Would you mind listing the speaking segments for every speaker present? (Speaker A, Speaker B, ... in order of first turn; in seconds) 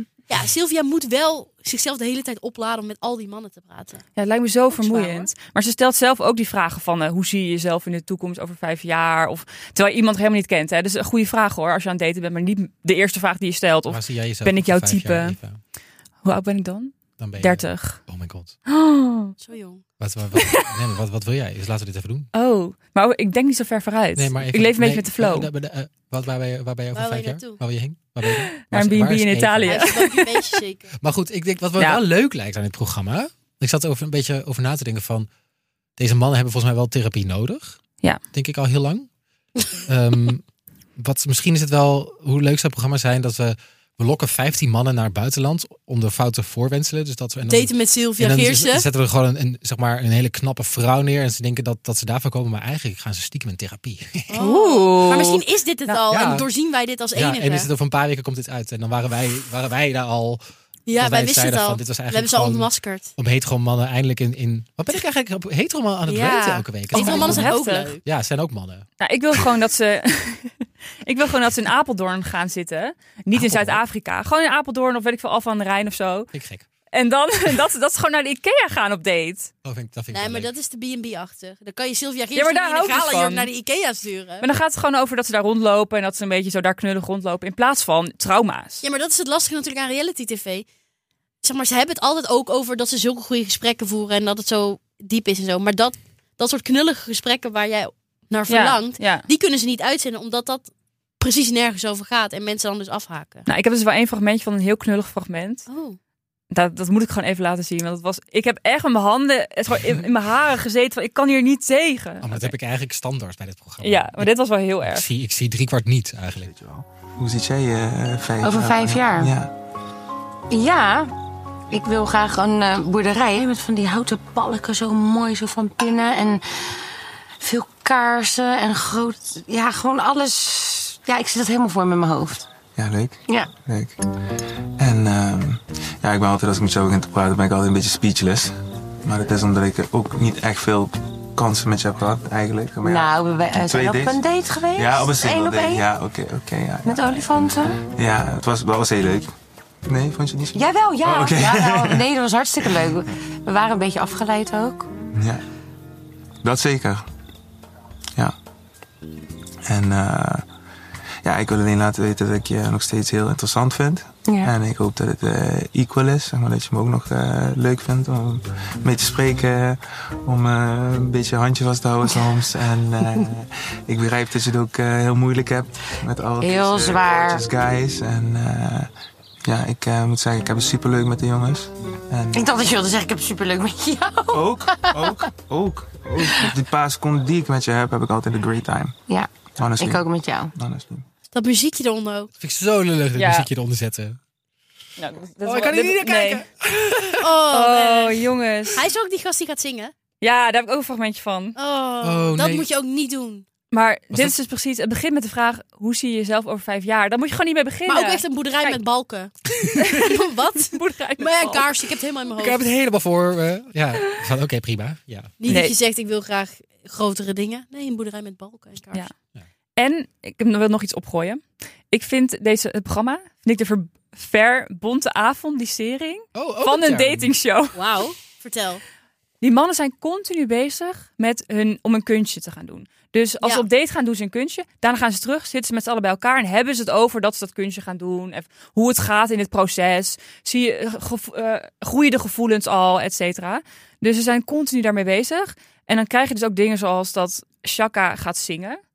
Speaker A: 0.3-4.0, 4.7-5.3, 19.4-19.8, 26.9-27.6, 29.6-30.9, 47.5-48.9, 54.3-57.7, 60.9-63.1, 66.1-68.0, 80.1-84.5, 88.8-90.7, 91.4-103.5, 105.7-106.0, 191.3-192.3, 197.2-199.9, 201.6-203.4, 207.9-212.6, 215.4-219.1, 227.8-228.8
Speaker B: 4.2-15.4, 16.2-18.0, 18.7-19.4, 20.4-20.9, 22.3-25.5, 28.3-30.6, 54.4-55.4, 66.9-68.0, 69.0-76.3, 76.9-79.5, 82.3-83.5, 84.4-88.8, 98.5-99.3, 103.5-105.7, 106.5-112.5, 113.8-115.1, 193.2-193.5, 195.0-196.5, 197.5-198.9, 200.2-201.6, 203.7-208.8, 209.7-211.7, 215.5-215.8, 219.8-227.8, 229.4-248.8
Speaker C: 13.9-15.6, 17.2-18.6, 20.0-22.3, 24.1-29.9, 31.0-35.3, 36.0-37.8, 38.3-39.1, 39.8-40.4, 41.0-54.5, 56.0-56.5, 57.1-60.4, 61.0-68.9, 73.3-73.8, 76.3-76.7, 79.6-80.5, 112.2-114.3, 114.8-116.5, 192.4-194.2, 195.4-197.2, 202.0-202.7, 212.3-215.4, 226.3-227.3
Speaker D: 116.5-119.5, 132.8-134.0, 134.8-138.5, 139.1-144.2, 144.8-149.3, 149.8-152.1, 152.6-152.9, 155.2-155.4, 156.4-157.1, 159.7-160.4, 161.2-178.9, 179.5-182.7, 184.3-188.9, 189.6-191.1
Speaker E: 118.4-119.3, 120.5-121.1, 121.7-126.8, 127.4-132.5, 142.8-145.9, 146.8-147.8, 150.6-154.9, 164.3-164.5, 176.4-177.4, 182.3-185.3, 186.2-186.5, 189.1-190.5